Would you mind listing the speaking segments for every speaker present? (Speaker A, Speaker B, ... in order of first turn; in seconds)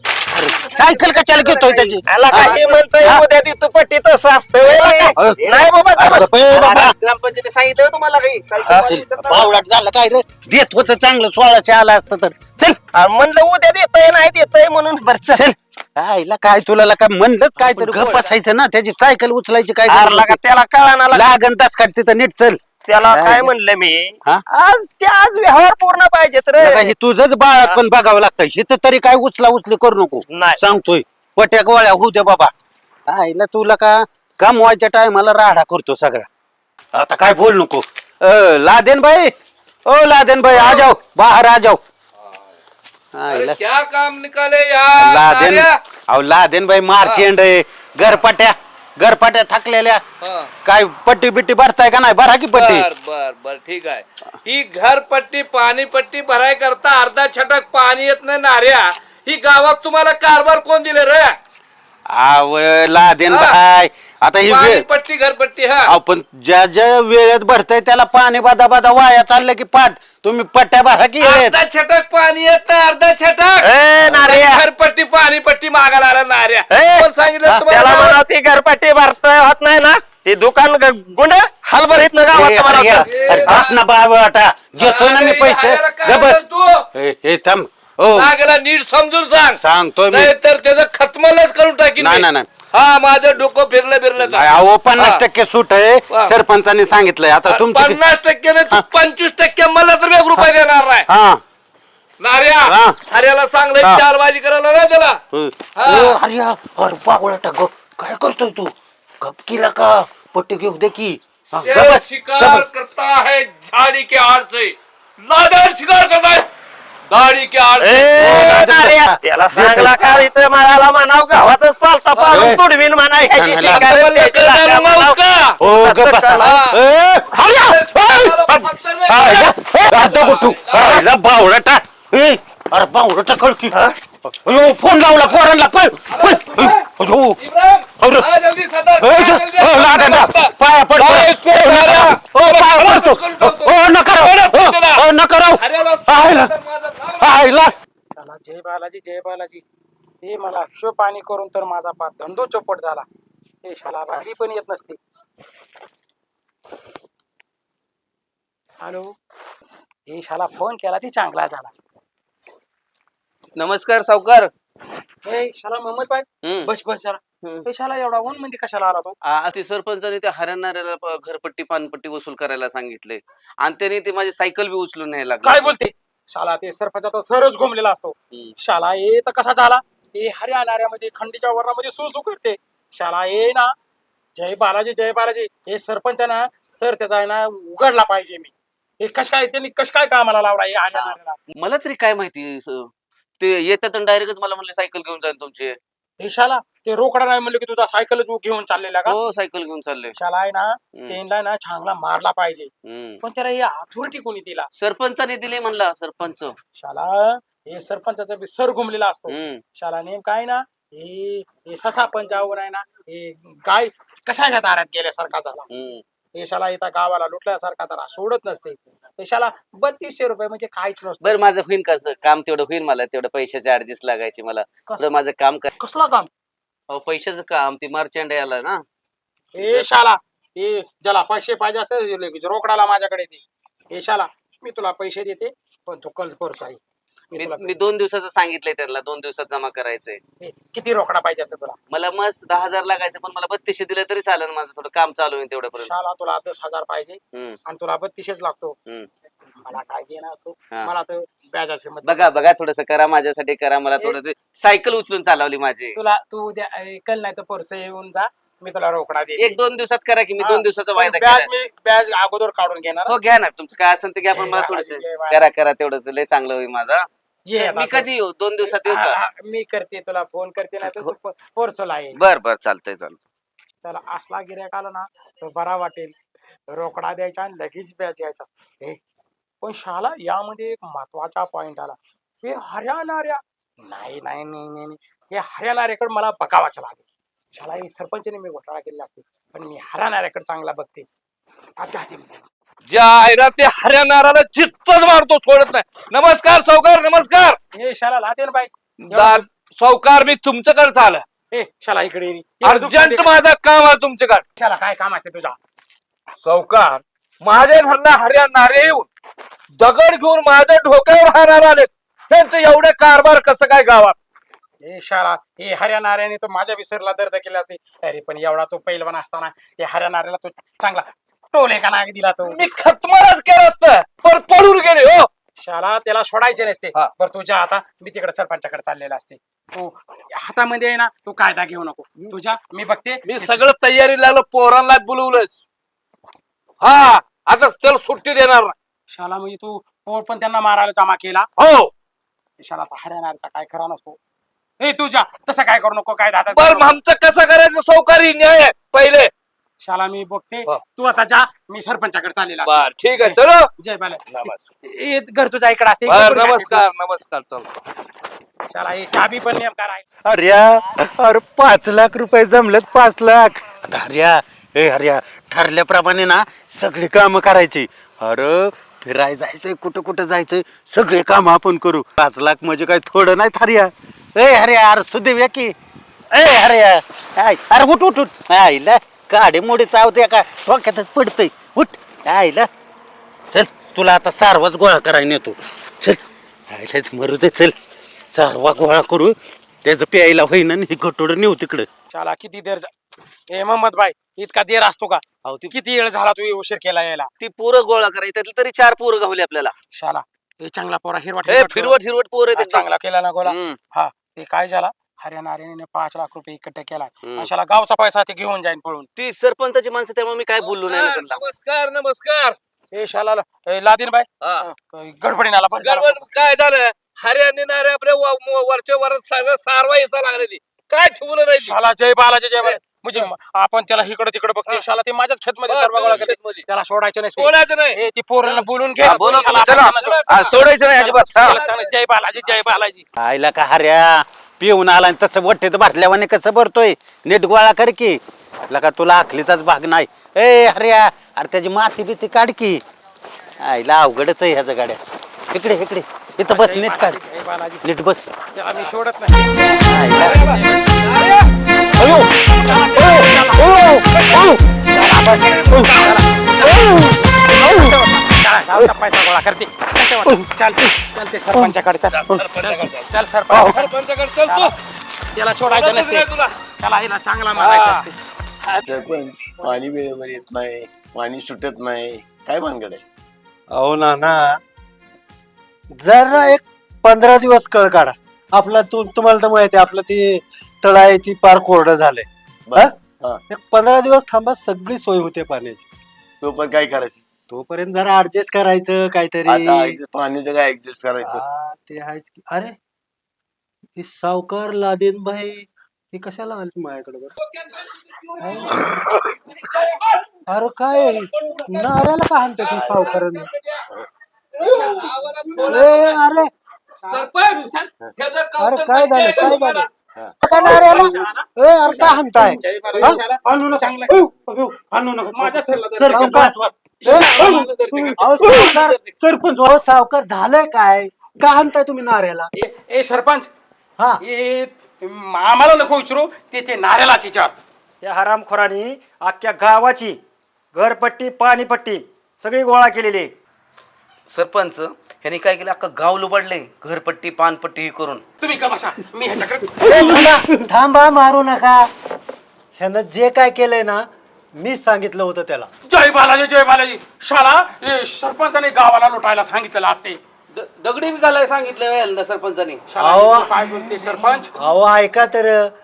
Speaker A: 0.3-3.2, 5.2-6.9, 8.6-12.8, 15.3-20.4, 21.1-23.5, 26.6-32.5, 33.1-36.3, 36.9-39.3, 39.9-41.8, 43.1-43.6, 45.0-50.0, 50.6-52.9, 62.1-64.8, 65.9-71.5, 82.3-86.4, 86.9-88.3, 89.5-90.3, 92.0-92.5, 94.2-98.0, 101.1-101.4, 102.7-103.0, 105.3-112.7, 118.2-120.1, 122.3-122.6, 123.3-123.9, 125.6-137.4, 138.0-138.3, 139.0-146.5, 147.2-147.8, 360.2-375.7, 376.3-382.7, 383.5-387.8, 388.3-391.9, 433.2-442.8, 443.6-445.0, 445.5-447.2, 447.8-448.3, 449.8-450.5, 452.0-454.6, 513.0-516.7, 539.9-540.4
Speaker B: 0.4-2.8, 4.7-5.5, 6.5-9.6, 163.6-164.5, 166.4-166.7, 169.2-175.8, 190.9-195.8, 199.1-200.2, 200.9-201.2, 202.8-203.2, 204.8-206.6, 209.3-209.6, 215.7-216.0, 221.2-225.7, 226.9-228.8, 229.6-229.9, 237.4-240.2, 241.9-245.9, 247.3-247.6, 252.0-256.0, 259.4-261.5, 263.1-269.2, 270.8-271.1, 272.1-273.2, 395.4-395.7, 397.4-399.7, 401.5-402.9, 403.4-403.8, 407.2-407.5, 409.2-411.4, 429.0-431.6, 534.3-538.2, 550.5-552.8
Speaker C: 2.1-6.3, 12.9-15.5, 17.6-18.2, 19.9-21.3, 22.9-26.9, 30.3-30.6, 73.6-74.7, 76.7-77.1, 77.7-83.7, 117.8-126.5
Speaker D: 40.5-40.9, 43.3-45.8, 50.2-50.5, 52.5-61.4, 63.3-63.6, 64.5-65.9, 71.2-78.2, 83.1-83.8, 84.8-86.9, 88.2-95.2, 97.5-101.1, 102.2-105.2, 105.8-106.2, 111.6-116.5, 117.1-118.1, 122.2-122.6, 123.6-125.6, 126.4-126.8, 127.4-131.0, 136.1-136.9, 137.4-145.0, 145.6-147.4, 292.9-297.6, 299.0-301.2, 302.6-304.4, 306.4-309.1, 309.8-314.2, 322.4-325.3, 333.3-335.5, 336.8-338.8, 341.6-341.9, 346.6-349.3, 352.7-353.7, 356.1-357.7, 410.6-412.6, 414.4-414.7, 415.8-421.8, 422.6-423.3, 425.7-426.6, 427.4-430.7, 431.3-431.9, 450.1-451.5, 454.1-454.6, 455.5-456.1, 462.1-464.7, 465.7-466.5, 467.6-468.1, 497.4-502.0, 502.6-503.9, 504.5-506.2, 507.1-509.9
Speaker E: 148.2-149.6, 150.2-153.1, 153.6-155.0, 158.8-159.1, 160.1-161.7, 165.2-169.2, 175.4-183.7, 184.4-191.4, 196.2-199.2, 200.2-202.7, 203.2-204.7, 206.8-215.7, 216.4-221.4, 225.8-226.3, 229.6-236.8, 237.3-237.7, 240.4-241.8, 245.8-248.8, 249.6-252.3, 255.9-259.6, 260.4-263.1, 264.3-265.4, 267.5-268.1, 268.6-272.2, 273.8-276.1, 276.7-279.0, 279.6-291.1, 291.8-292.4, 297.8-299.5, 301.5-303.3, 304.6-305.6, 314.8-322.6, 325.6-333.6, 339.1-341.5, 342.6-344.2, 344.8-347.0, 349.8-356.8, 358.7-360.1, 392.1-392.9, 393.5-397.3, 399.9-402.0, 402.5-409.1, 412.9-416.3, 421.5-433.1, 446.5-447.9, 448.6-451.2, 452.4-453.8, 454.9-463.9, 464.5-464.8, 465.4-466.3, 466.8-468.1, 507.1-507.9, 510.4-514.2, 515.3-519.1, 522.6-523.5, 524.2-527.5, 538.4-540.2, 545.9-550.2, 552.9-554.5
Speaker F: 468.8-473.0, 482.7-483.4, 486.4-487.2, 489.4-491.4
Speaker G: 473.7-474.6, 476.0-482.9, 483.5-485.9, 487.5-490.0, 491.2-492.8, 494.0-497.4, 498.4-499.2, 500.5-503.5, 504.8-506.5, 508.6-509.9, 510.4-513.2, 516.0-516.5, 517.1-522.5, 539.8-541.8, 542.8-545.7, 553.0-555.7
Speaker H: 528.0-530.2, 530.7-533.3